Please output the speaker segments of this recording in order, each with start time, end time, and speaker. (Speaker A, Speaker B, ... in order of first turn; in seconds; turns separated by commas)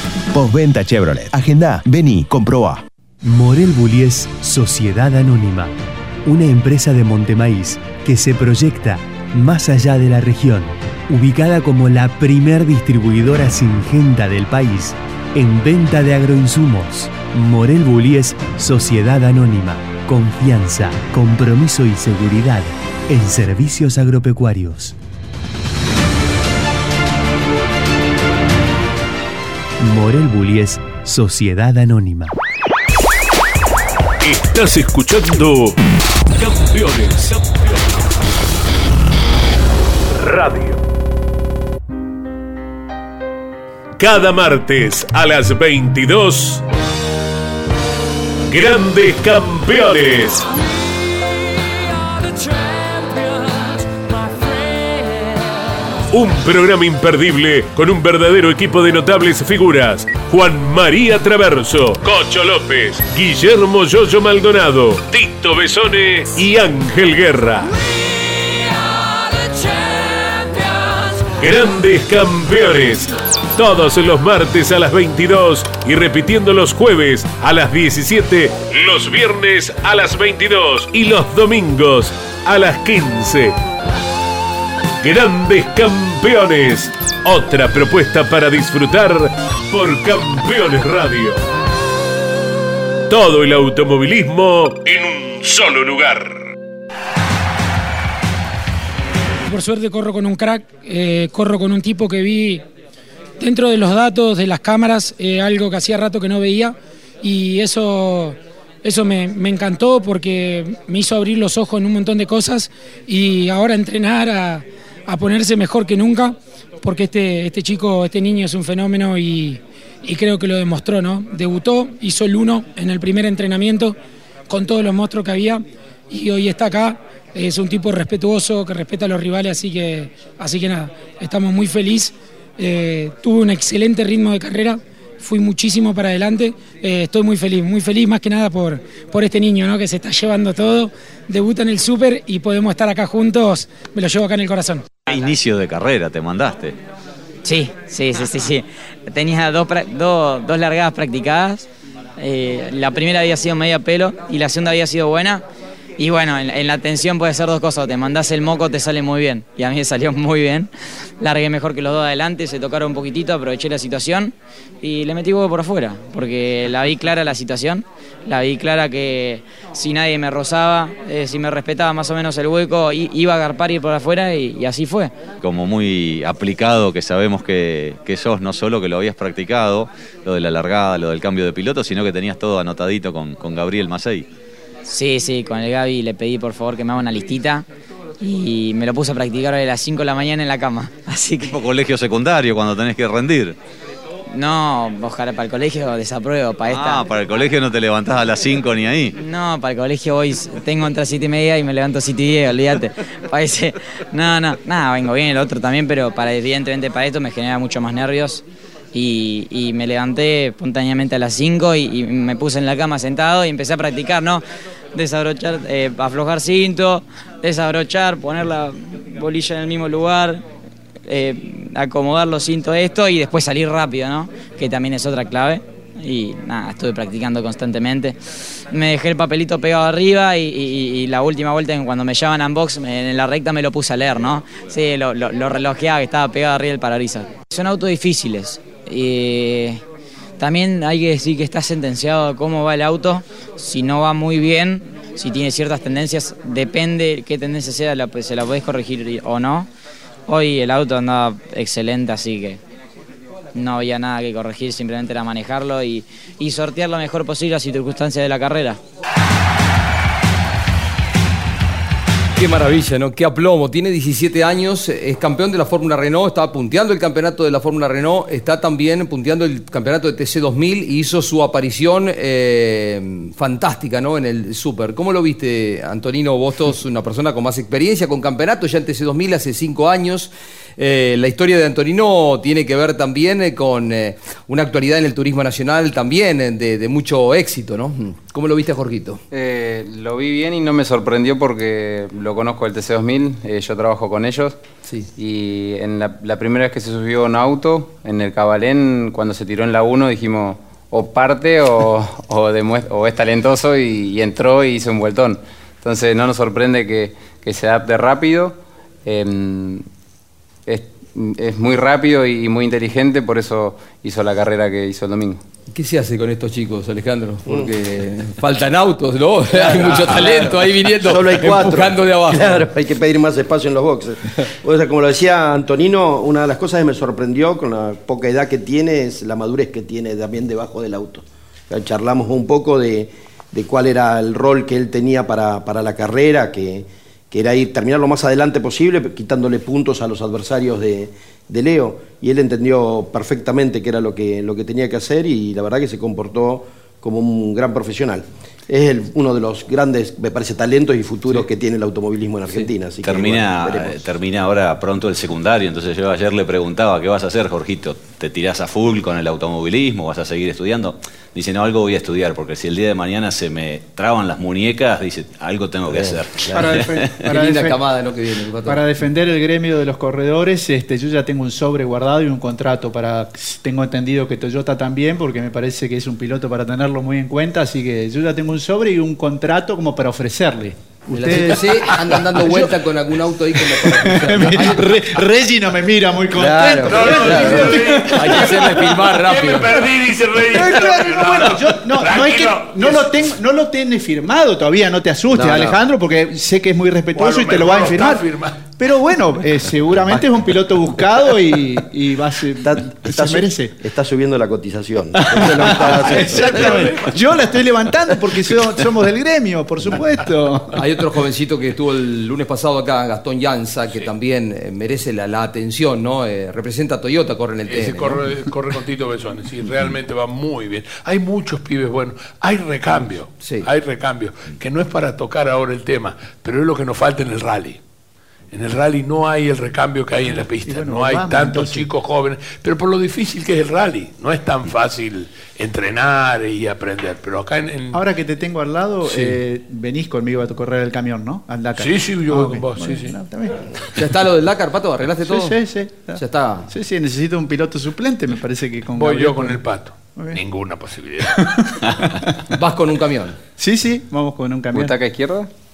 Speaker A: 0.3-2.8, Speaker B: 3.2-24.9, Speaker B: 29.8-32.3, Speaker C: 34.2-35.8, Speaker C: 36.4-37.9, Speaker C: 40.1-40.8, Speaker C: 44.0-46.6, Speaker C: 48.5-50.5, Speaker C: 56.1-67.7, Speaker C: 71.4-83.6, Speaker C: 85.0-91.4, Speaker C: 93.1-96.5, Speaker D: 99.5-102.6, Speaker D: 103.4-124.0, Speaker D: 124.5-144.9, Speaker E: 145.1-146.8, Speaker F: 147.4-151.7, Speaker F: 152.2-155.4, Speaker F: 156.0-160.7, Speaker F: 161.2-175.1, Speaker E: 175.4-184.3, Speaker F: 184.8-187.7, Speaker F: 188.2-191.6, Speaker E: 191.4-193.6, Speaker F: 194.3-197.1, Speaker E: 196.7-199.2, Speaker F: 199.2-214.4, Speaker F: 214.9-220.4, Speaker F: 221.1-228.2, Speaker F: 228.7-239.8, Speaker F: 240.4-249.7, Speaker F: 250.3-252.6, Speaker F: 253.6-258.8, Speaker G: 262.4-289.2, Speaker H: 289.3-294.6, Speaker H: 295.1-309.8, Speaker H: 310.6-315.4, Speaker G: 315.7-322.6, Speaker I: 319.5-354.1, Speaker E: 353.0-367.3, Speaker J: 366.5-367.8, Speaker G: 367.2-368.8, Speaker J: 368.6-382.7, Speaker G: 381.1-384.8, Speaker J: 383.6-388.6, Speaker G: 386.4-389.8, Speaker K: 386.9-393.2, Speaker J: 390.5-403.7, Speaker G: 395.3-395.7, Speaker K: 397.1-398.6, Speaker I: 402.6-406.7, Speaker J: 405.3-410.8, Speaker K: 406.4-407.5, Speaker G: 410.7-418.2, Speaker K: 417.7-427.8, Speaker G: 423.4-423.7, Speaker K: 428.5-438.0, Speaker J: 430.6-431.9, Speaker J: 437.9-443.8, Speaker K: 439.0-439.4, Speaker K: 441.8-443.2, Speaker G: 443.9-446.7, Speaker J: 445.2-450.4, Speaker K: 448.9-451.4, Speaker J: 451.3-452.3, Speaker G: 452.5-453.4, Speaker J: 453.6-454.9, Speaker H: 454.7-455.5